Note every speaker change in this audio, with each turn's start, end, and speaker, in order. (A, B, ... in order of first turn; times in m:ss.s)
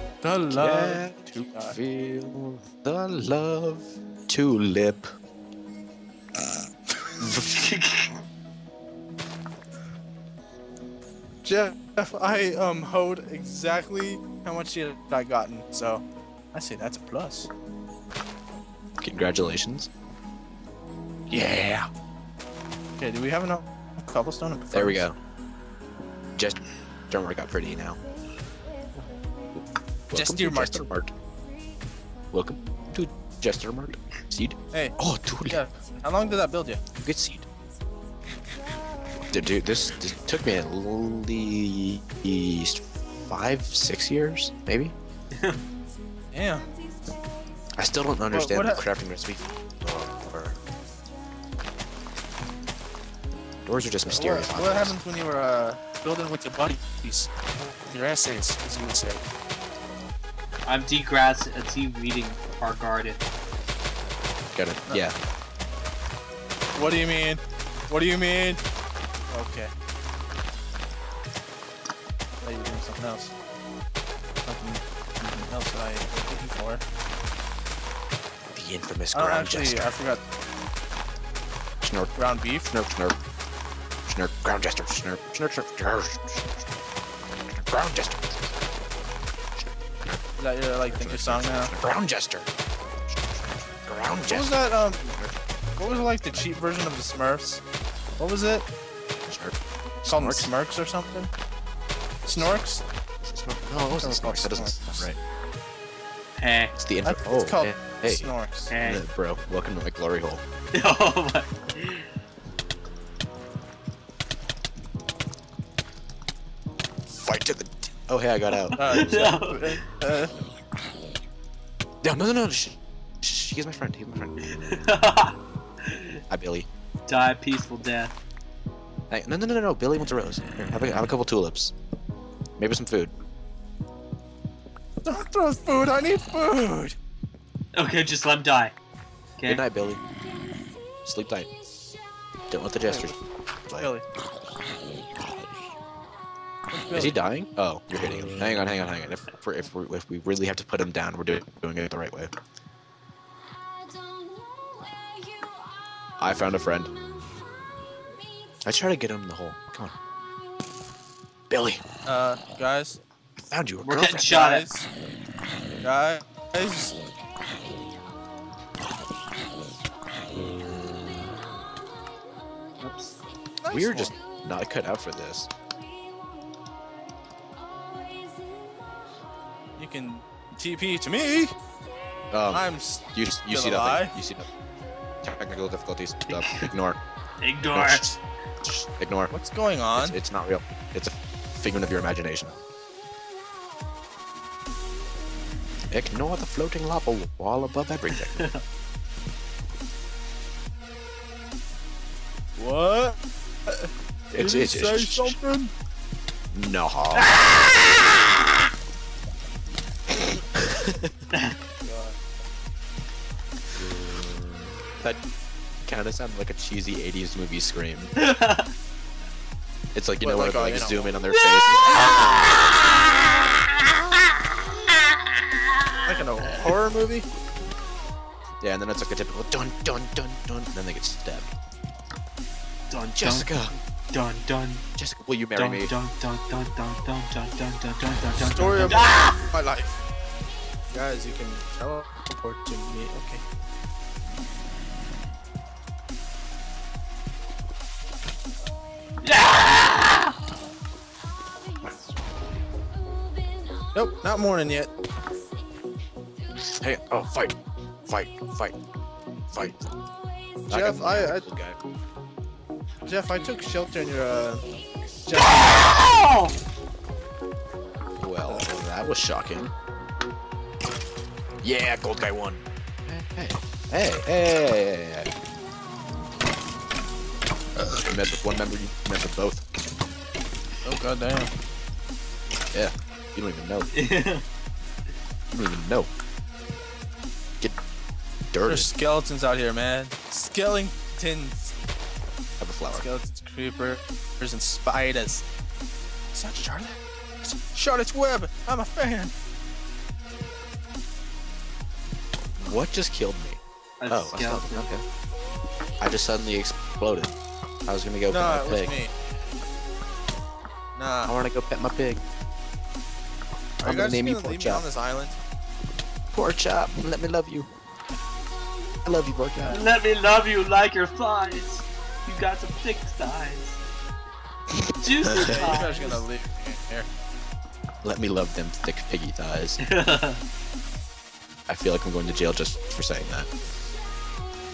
0:00.2-0:01.8 A
0:00.5-0:05.1 B
0:07.2-0:07.6 B
0:07.4-0:08.2 C
0:11.4-0:17.5 A
0:19.0-0:19.9 B
0:21.3-0:21.9 B
0:23.0-0:25.1 A
0:24.7-0:25.2 B
0:26.4-0:28.0 B
0:30.1-0:31.1 B
0:30.1-0:30.9 A
0:32.3-0:35.6 B
0:34.7-0:36.8 A
0:37.0-0:37.5 B
0:39.3-0:45.0 B
0:45.3-0:45.6 C
0:46.3-0:46.7 A
0:47.8-0:50.6 B
0:48.3-0:48.9 A
0:53.6-0:55.0 B
0:54.0-0:57.3 A
0:57.9-0:59.2 A
1:00.7-1:03.2 C
1:04.5-1:05.2 B
1:06.8-1:08.6 A
1:09.3-1:09.7 A
1:12.4-1:13.3 A
1:14.5-1:16.8 A
1:18.5-1:19.9 B
1:19.1-1:20.2 A
1:21.8-1:22.1 B
1:22.2-1:22.7 A
1:22.7-1:23.2 B
1:24.1-1:26.6 B
1:27.5-1:28.9 B
1:29.6-1:30.2 B
1:30.4-1:31.7 A
1:30.9-1:32.5 B
1:33.1-1:35.3 B
1:34.3-1:35.2 A
1:35.8-1:37.6 A
1:38.2-1:38.7 A
1:39.3-1:40.5 B
1:40.1-1:41.3 A
1:42.3-1:42.8 A
1:43.2-1:45.2 B
1:43.8-1:45.1 A
1:46.4-1:46.7 C
1:46.8-1:48.3 B
1:47.0-1:48.7 A
1:48.7-1:49.0 C
1:48.8-1:50.4 B
1:50.7-1:52.1 C
1:57.1-1:59.1 B
1:58.5-1:59.8 C
1:58.8-2:00.3 A
2:02.0-2:04.8 B
2:04.4-2:06.2 C
2:06.3-2:06.7 B
2:07.1-2:08.1 C
2:09.1-2:11.7 B
2:12.6-2:13.1 B
2:15.0-2:17.0 A
2:17.8-2:18.7 C
2:19.4-2:19.6 C
2:19.5-2:20.0 B
2:21.0-2:21.5 B
2:22.5-2:23.2 B
2:22.9-2:23.1 A
2:23.8-2:24.0 A
2:26.7-2:27.2 A
2:26.9-2:32.3 B
2:36.2-2:36.9 B
2:38.6-2:40.0 B
2:41.5-2:41.8 B
2:42.1-2:43.0 A
2:43.4-2:44.3 B
2:43.8-2:44.7 C
2:44.2-2:44.9 A
2:45.8-2:47.0 A
2:52.8-2:53.2 C
2:53.6-2:54.2 A
2:53.7-2:55.5 B
2:59.8-3:01.5 A
3:02.3-3:04.5 B
3:02.5-3:04.2 A
3:05.2-3:07.0 B
3:06.3-3:06.7 C
3:07.4-3:08.1 C
3:07.7-3:09.3 B
3:09.3-3:10.2 A
3:10.0-3:12.6 B
3:15.9-3:18.5 B
3:18.1-3:18.6 C
3:22.6-3:25.7 A
3:24.3-3:25.4 B
3:26.5-3:27.5 B
3:27.1-3:28.1 C
3:30.1-3:31.2 B
3:31.8-3:32.2 A
3:35.9-3:38.1 B
3:38.2-3:38.7 C
3:40.0-3:41.9 B
3:40.2-3:41.2 A
3:41.4-3:42.6 C
3:46.1-3:47.3 A
3:46.4-3:46.7 C
3:48.6-3:51.5 B
3:52.9-3:54.8 C
3:53.2-3:53.7 B
3:55.0-3:55.9 B
3:55.6-3:59.4 C
3:58.4-4:00.0 A
4:00.9-4:03.4 A
4:09.2-4:10.3 C
4:13.9-4:14.9 A
4:16.6-4:18.8 B
4:20.7-4:21.8 B
4:20.7-4:21.5 A
4:23.0-4:24.6 A
4:25.2-4:26.0 A
4:25.8-4:26.5 C
4:28.2-4:29.7 B
4:31.6-4:35.3 B
4:38.0-4:39.7 B
4:40.8-4:41.5 A
4:42.7-4:43.9 B
4:43.9-4:44.4 C
4:45.5-4:46.1 B
4:48.5-4:48.9 B
4:48.6-4:51.8 A
4:52.6-4:53.0 B
4:52.9-4:55.4 A
4:56.3-4:59.3 A
5:02.6-5:05.0 B
5:04.0-5:04.9 C
5:06.0-5:07.4 B
5:07.9-5:08.9 B
5:08.3-5:09.1 A
5:11.0-5:11.4 A
5:11.3-5:12.2 B
5:13.8-5:15.4 A
5:13.8-5:14.8 B
5:16.3-5:17.7 B
5:19.0-5:19.8 B
5:19.7-5:23.8 C
5:24.7-5:25.6 B
5:25.0-5:26.2 C
5:25.4-5:27.1 A
5:28.0-5:29.8 B
5:29.8-5:30.4 C
5:31.7-5:33.5 B